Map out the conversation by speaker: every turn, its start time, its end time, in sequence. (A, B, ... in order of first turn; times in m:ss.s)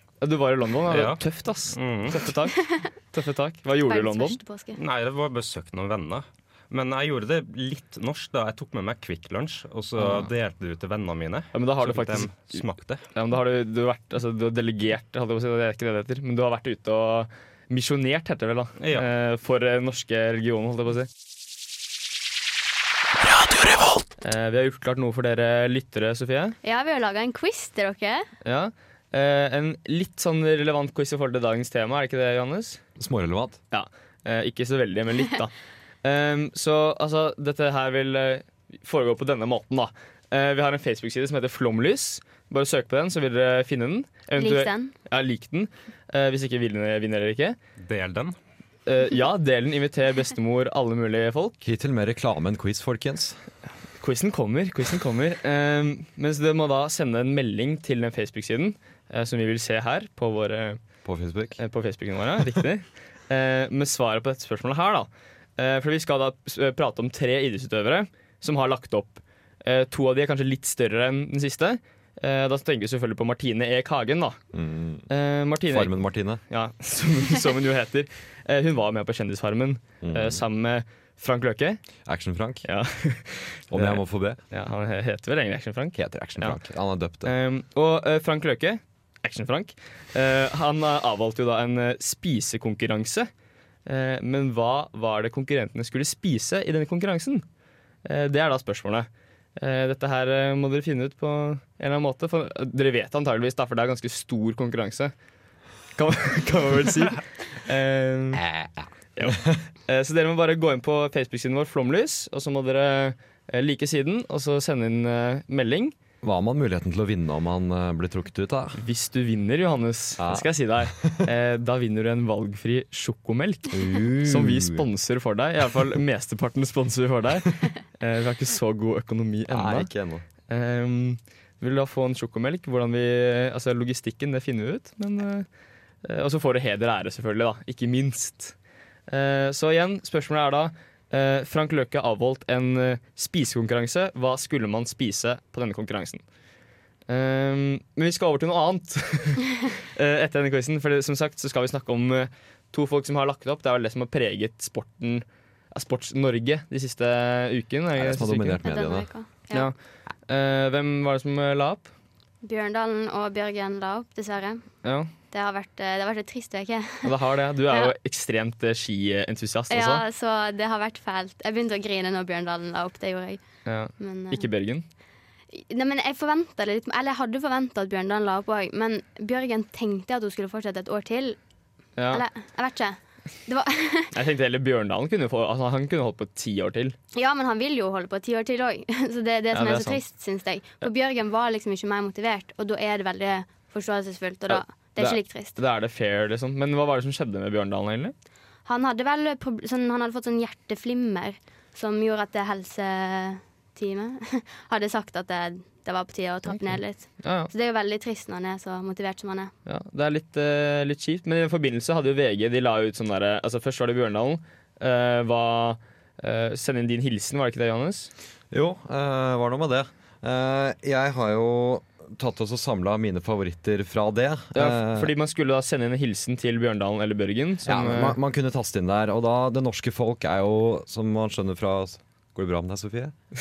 0:00.2-0:04.4 A
0:00.9-0:02.2 B
0:03.8-0:04.8 C
0:04.7-0:13.0 B
0:10.0-0:10.3 A
0:11.5-0:21.1 A
0:18.8-0:19.0 B
0:24.2-0:26.6 A
0:26.6-0:28.3 C
0:28.4-0:32.8 A
0:33.0-0:33.6 D
0:33.7-0:35.5 A
0:36.0-0:47.6 A
0:44.4-0:44.9 C
0:47.8-0:48.4 B
0:48.8-0:51.6 A
0:51.6-0:53.4 D
0:54.0-1:00.8 A
1:01.0-1:01.6 D
1:01.6-1:14.4 A
1:14.5-1:15.1 D
1:15.1-1:15.9 A
1:15.7-1:16.4 D
1:16.5-1:21.8 A
1:20.0-1:20.4 D
1:22.0-1:22.6 D
1:22.6-1:26.6 A
1:23.7-1:24.4 D
1:25.9-1:27.3 D
1:27.2-1:33.3 A
1:33.8-1:37.4 A
1:38.0-1:45.1 A
1:46.0-1:48.4 A
1:48.3-1:49.6 D
1:49.2-1:55.9 A
1:56.2-1:58.8 D
1:58.8-2:09.9 A
2:00.2-2:01.2 D
2:03.7-2:04.8 D
2:09.5-2:10.2 D
2:10.5-2:15.4 A
2:16.0-2:18.5 A
2:19.1-2:26.2 A
2:27.1-2:38.6 A
2:37.9-2:39.1 D
2:38.6-2:39.7 C
2:40.3-2:41.9 A
2:42.4-2:44.6 C
2:44.8-2:45.1 A
2:45.3-2:47.1 C
2:47.0-2:50.0 A
2:49.7-2:53.4 C
2:53.6-2:54.8 A
2:54.0-2:54.4 C
2:55.5-3:01.4 C
3:02.0-3:02.2 A
3:02.1-3:04.1 C
3:04.1-3:07.0 A
3:07.1-3:15.6 C
3:09.5-3:10.0 A
3:14.5-3:18.1 A
3:18.6-3:29.5 C
3:26.5-3:27.5 A
3:29.6-3:38.1 A
3:38.5-3:45.1 D
3:44.5-3:48.2 A
3:47.6-3:53.1 D